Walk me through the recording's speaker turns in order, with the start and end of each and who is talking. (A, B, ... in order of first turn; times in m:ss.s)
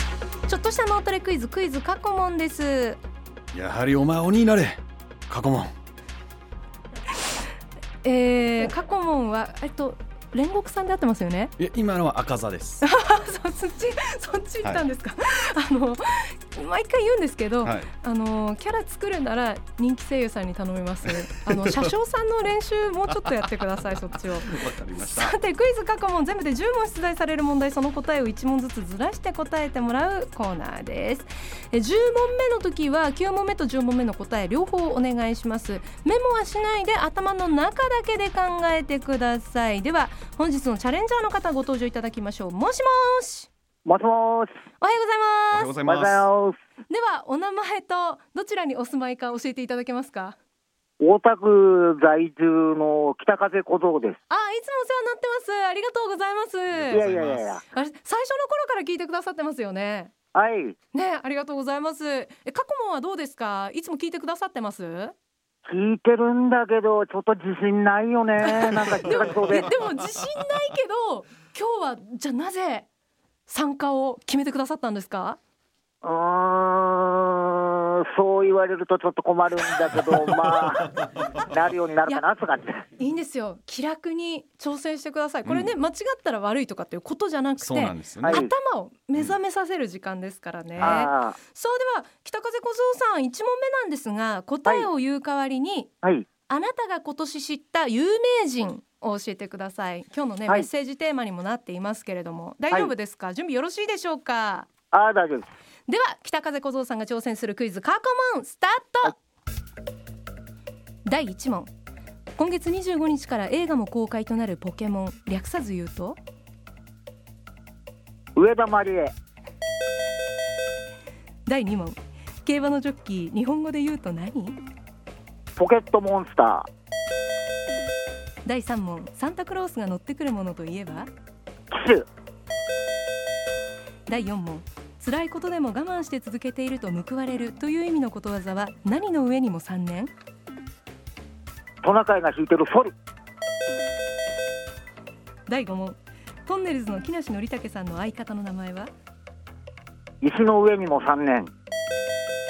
0:00.5-0:03.0 A
0:03.5-0:05.7 B
0:08.0-0:11.5 A
0:11.6-0:12.8 B
0:12.8-0:43.5 A
0:17.6-0:17.9 B
0:24.5-0:25.4 B
0:43.9-0:44.5 C
0:44.8-0:45.7 A
0:45.5-0:46.3 B
0:45.8-0:46.6 C
0:46.9-0:50.4 A
0:51.0-0:54.2 C
0:54.3-0:57.1 A
0:56.7-0:57.5 B
0:56.9-0:57.6 C
0:57.7-1:00.1 A
1:00.3-1:00.8 C
1:00.9-1:05.2 A
1:05.7-1:09.7 C
1:08.4-1:12.9 A
1:13.5-1:15.4 A
1:16.0-1:22.8 C
1:23.0-1:35.9 A
1:25.4-1:25.7 B
1:27.6-1:28.4 B
1:28.2-1:28.5 C
1:30.8-1:31.4 C
1:36.5-1:44.7 A
1:44.9-1:45.5 C
1:45.9-1:49.2 A
1:51.0-1:51.7 A
1:52.4-1:56.2 A
1:58.4-1:59.1 C
2:01.5-2:04.6 A
2:05.6-2:06.7 C
2:08.4-2:11.1 A
2:11.7-2:12.1 C
2:14.1-2:20.1 A
2:21.8-2:22.9 C
2:25.5-2:28.9 A
2:30.2-2:31.5 C